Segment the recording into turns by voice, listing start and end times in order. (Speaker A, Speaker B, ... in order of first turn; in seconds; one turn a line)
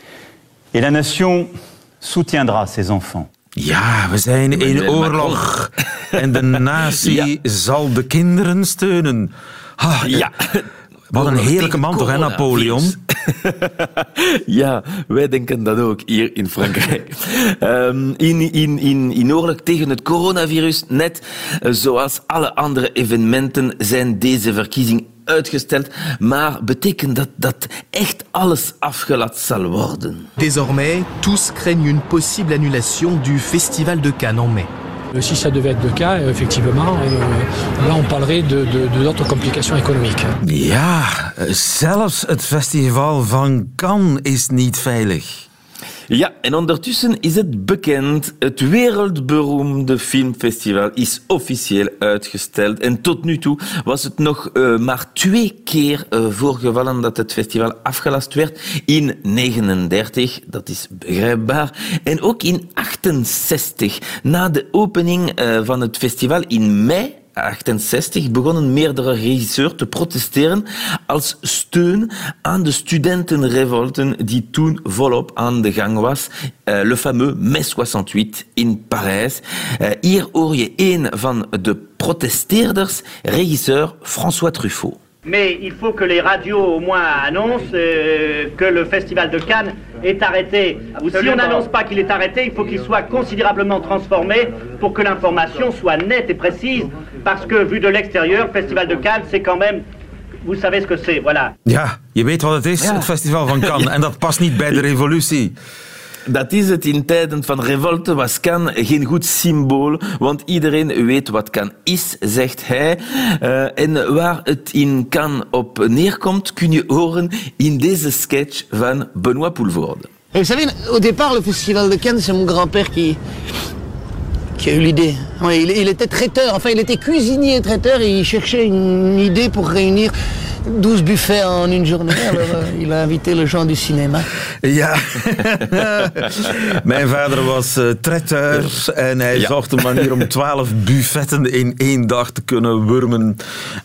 Speaker A: 0.7-3.3
Speaker B: 3.5-10.3
Speaker C: 4.5-5.4
Speaker C: 6.9-7.3
Speaker C: 10.0-30.3
Speaker B: 11.1-12.9
Speaker D: 30.4-34.7
Speaker E: 35.1-40.3
Speaker B: 40.4-45.4
Speaker C: 46.1-85.0
Speaker F: 85.2-99.8
Speaker F: 100.4-101.5
Speaker B: 101.6-105.5
Speaker C: 102.8-103.9
Speaker C: 106.2-120.1
Speaker G: 120.3-123.2
Speaker G: 124.6-130.1
Speaker G: 130.7-134.3
Speaker B: 134.6-143.4
Speaker C: 139.3-140.2